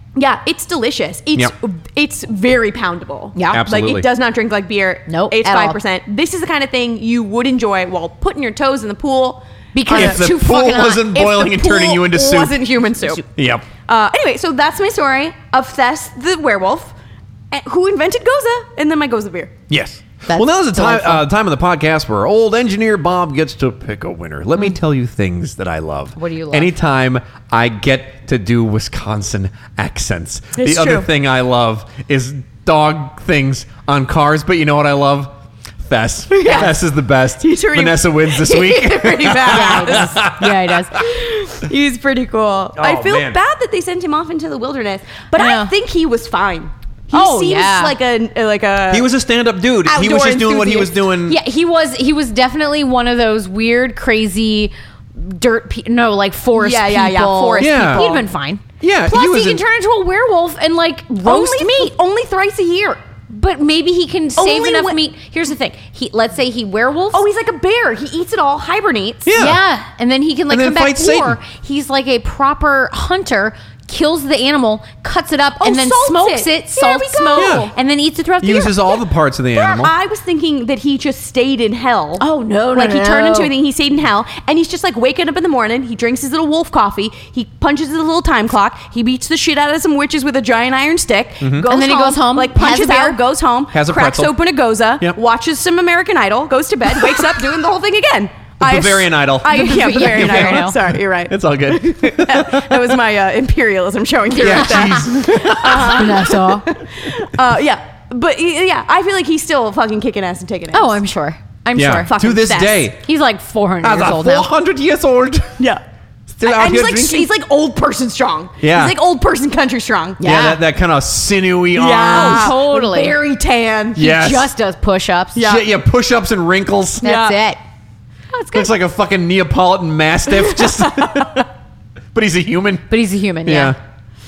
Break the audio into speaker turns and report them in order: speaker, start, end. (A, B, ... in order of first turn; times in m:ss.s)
0:00.2-0:13.2 A
0:03.4-0:03.6 B
0:03.5-0:04.1 C
0:05.1-0:05.8 B
0:09.8-0:11.5 B
0:09.9-0:12.6 C
0:13.3-0:13.7 C
0:13.9-0:16.9 A
0:17.5-0:19.6 A
0:19.7-0:41.1 C
0:20.3-0:21.2 B
0:26.2-0:26.7 B
0:30.6-0:31.1 A
0:36.3-0:36.8 A
0:36.4-0:36.7 B
0:37.4-0:40.2 A
0:39.5-0:41.0 B
0:41.0-0:49.1 A
0:42.8-0:43.4 C
0:45.4-0:45.7 B
0:47.1-0:47.9 B
0:48.9-0:51.4 C
0:49.8-0:51.0 A
0:51.3-1:01.9 B
0:56.6-0:58.3 A
0:57.6-0:58.0 C
0:58.8-0:59.6 C
1:01.2-1:03.0 A
1:03.3-1:07.2 B
1:04.4-1:05.0 A
1:07.1-1:09.3 A
1:09.3-1:09.6 C
1:09.4-1:18.9 B
1:10.5-1:11.4 C
1:15.6-1:17.7 A
1:17.4-1:17.7 C
1:18.4-1:19.9 C
1:19.5-1:51.0 A
1:22.2-1:23.5 B
1:31.4-1:31.7 C
1:31.6-1:33.2 B
1:33.7-1:34.3 C
1:38.6-1:43.0 C
1:39.5-1:40.8 B
1:44.4-1:46.2 C
1:44.6-1:46.7 B
1:50.7-1:52.1 B
1:51.8-1:53.0 C
1:52.1-1:52.9 A
1:53.0-1:54.5 B
1:53.8-1:55.6 C
1:56.3-1:57.3 C
1:56.4-2:00.2 A
1:58.6-1:59.0 C
2:00.2-2:00.6 B
2:00.2-2:02.6 C
2:01.8-2:04.2 A
2:02.1-2:03.2 B
2:04.0-2:04.5 C
2:04.0-2:05.5 B
2:05.4-2:05.7 A
2:05.4-2:07.1 C
2:07.0-2:07.6 B
2:07.0-2:07.4 A
2:08.3-2:08.7 A
2:08.5-2:11.5 C
2:10.4-2:11.4 A
2:12.1-2:12.9 C
2:12.9-2:13.8 B
2:13.4-2:13.8 C